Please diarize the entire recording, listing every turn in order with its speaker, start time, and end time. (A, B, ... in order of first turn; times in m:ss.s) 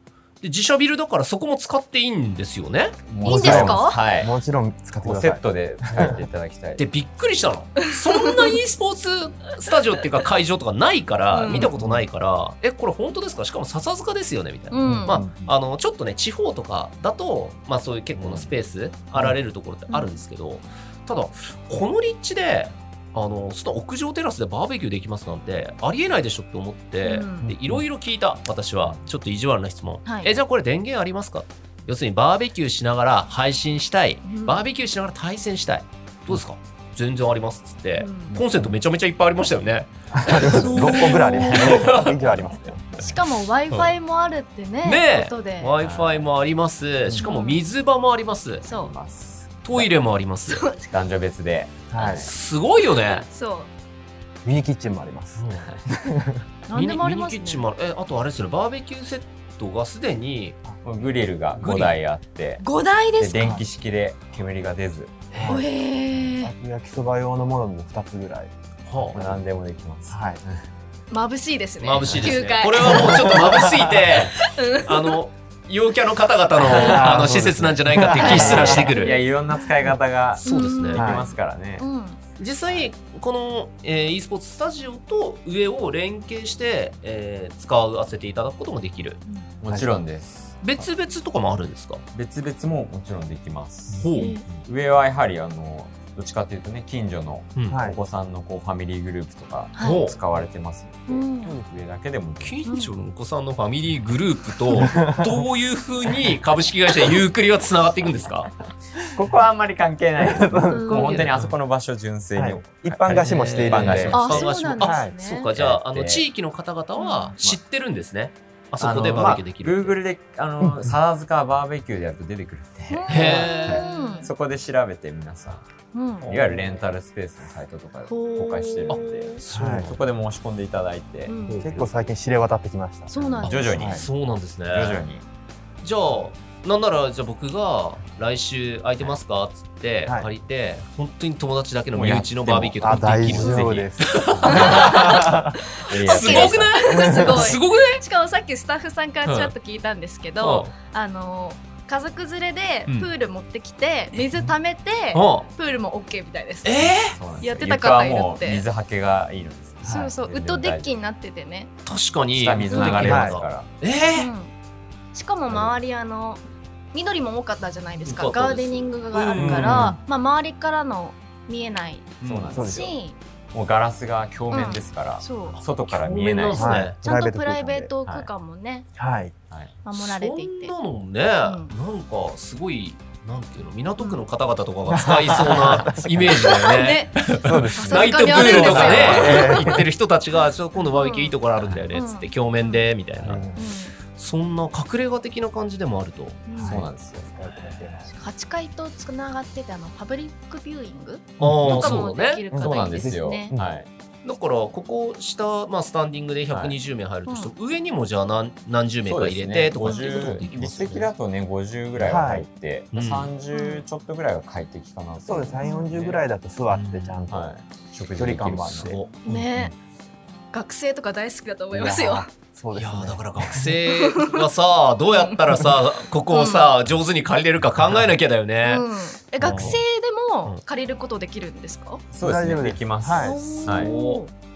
0:00.4-0:03.0 A
0:03.1-0:04.3 B
0:03.2-0:04.0 C
0:03.2-0:06.3 D
0:05.0-0:06.9 B
0:06.8-0:42.2 A
0:08.1-0:08.6 C
0:11.3-0:11.7 C
0:11.6-0:12.0 D
0:14.7-0:15.2 C
0:14.8-0:15.5 D
0:18.2-0:18.5 B
0:27.0-0:27.5 C
0:30.1-0:30.4 C
0:34.2-0:34.6 C
0:38.0-0:38.4 C
0:40.1-0:43.1 D
0:40.4-0:41.9 C
0:42.2-0:43.1 B
0:43.0-0:45.7 C
0:44.8-0:48.6 A
0:45.8-0:46.3 B
0:47.2-0:47.6 C
0:48.6-0:49.9 B
0:48.6-0:48.9 C
0:49.6-0:50.7 A
0:50.5-0:50.9 C
0:50.9-0:52.3 B
0:51.9-0:52.3 D
0:52.1-0:53.3 A
0:52.9-0:53.7 C
0:54.4-0:56.4 D
0:55.4-0:55.8 A
0:56.7-0:57.7 C
0:56.7-1:00.6 A
1:00.8-1:02.6 B
1:01.6-1:02.0 A
1:02.6-1:03.6 C
1:03.2-1:05.3 B
1:05.3-1:05.6 A
1:05.4-1:05.7 D
1:05.5-1:06.5 C
1:06.4-1:08.5 D
1:08.9-1:09.3 A
1:09.1-1:09.4 D
1:09.1-1:10.6 B
1:10.1-1:10.4 D
1:11.1-1:13.6 C
1:11.8-1:19.2 A
1:12.0-1:12.3 B
1:12.9-1:13.8 D
1:14.4-1:15.2 C
1:16.6-1:18.9 D
1:16.8-1:21.9 B
1:18.2-1:19.2 C
1:20.4-1:21.1 A
1:20.4-1:22.2 C
1:21.0-1:21.3 D
1:22.4-1:29.2 A
1:29.6-1:30.9 B
1:29.7-1:30.0 D
1:30.6-1:32.0 A
1:32.1-1:42.6 B
1:33.9-1:34.4 A
1:34.1-1:34.4 C
1:37.6-1:37.8 A
1:37.7-1:38.0 D
1:39.8-1:40.0 C
1:39.8-1:40.2 A
1:41.1-1:41.6 C
1:42.4-1:48.5 A
1:42.7-1:42.9 C
1:44.8-1:45.3 D
1:49.0-1:54.5 B
1:50.2-1:51.5 D
1:50.7-1:51.2 C
1:51.0-1:51.5 A
1:52.4-1:55.1 D
1:53.1-2:00.0 A
1:54.1-1:55.5 C
1:55.5-1:56.3 B
1:57.0-1:57.3 C
1:58.8-2:05.6 B
2:00.6-2:00.9 D
2:02.9-2:04.3 C
2:03.1-2:04.2 A
2:05.9-2:06.3 C
2:06.2-2:06.8 A
2:06.2-2:11.4 B
2:08.1-2:09.2 C
2:08.9-2:10.0 A
2:09.5-2:10.0 D
2:11.3-2:11.7 C
2:11.5-2:11.9 A
2:11.6-2:14.1 D
2:13.1-2:13.9 C
2:13.4-2:14.1 B
2:13.4-2:15.1 A
2:14.7-2:15.2 B
2:15.8-2:25.4 A
2:21.9-2:25.3 B
2:22.5-2:25.6 D
2:24.5-2:38.6 C
2:25.8-2:26.9 B
2:26.0-2:28.0 A
2:26.9-2:27.6 D
2:29.2-2:29.5 A
2:30.4-2:30.7 A
2:35.1-2:35.5 A
2:36.6-2:37.2 A
2:37.0-2:40.9 B
2:39.8-2:41.7 C
2:41.8-2:44.3 A
2:42.3-2:43.7 B
2:42.6-2:43.1 C
2:43.0-2:43.4 D
2:44.1-2:44.5 C
2:45.1-2:46.4 C
2:46.9-2:53.2 C
2:48.0-2:49.8 A
2:49.4-2:50.0 D
2:49.6-2:50.0 B
2:52.2-2:52.6 A
2:52.2-2:53.0 B
2:52.5-2:52.9 D
2:53.5-2:56.9 B
2:54.5-2:55.6 C
2:55.5-2:57.0 A
2:56.5-2:57.9 D
2:57.0-2:58.9 C
2:58.0-2:58.3 B
2:59.0-2:59.3 D
2:59.8-3:00.7 C
2:59.9-3:13.5 A
3:01.4-3:01.7 C
3:04.9-3:06.6 D
3:06.4-3:09.8 C
3:07.4-3:09.8 D
3:07.7-3:09.6 B
3:10.8-3:11.4 C
3:11.6-3:11.8 B
3:11.9-3:12.9 C
3:13.2-3:13.5 B
3:13.2-3:13.6 D
3:13.6-3:13.9 C
3:14.1-3:16.5 A
3:16.5-3:16.8 C
3:16.6-3:18.2 D
3:16.6-3:17.3 B
3:17.4-3:18.0 A
3:18.1-3:23.5 C
3:21.4-3:22.4 A
3:21.4-3:21.9 D
3:21.6-3:22.0 B
3:22.5-3:23.7 D
3:22.5-3:23.9 B
3:24.2-3:31.1 A
3:26.5-3:26.8 B
3:27.3-3:27.5 C
3:29.0-3:36.2 B
3:29.8-3:30.4 C
3:32.0-3:32.5 D
3:32.9-3:33.3 A
3:33.5-3:33.8 C
3:35.2-3:37.5 D
3:35.6-3:35.9 C
3:36.7-3:37.3 A
3:37.3-3:39.0 B
3:38.2-3:39.4 D
3:38.7-3:39.2 A
3:39.2-3:39.7 C
3:40.5-3:42.3 C
3:41.7-3:43.7 D
3:42.8-3:48.9 A
3:43.9-3:44.4 C
3:45.1-3:45.7 C
3:46.3-3:46.7 C
3:48.6-3:52.0 C
3:49.4-3:49.8 A
3:52.1-3:53.9 B
3:52.2-3:53.8 D
3:53.2-3:54.3 C
3:53.7-3:54.2 A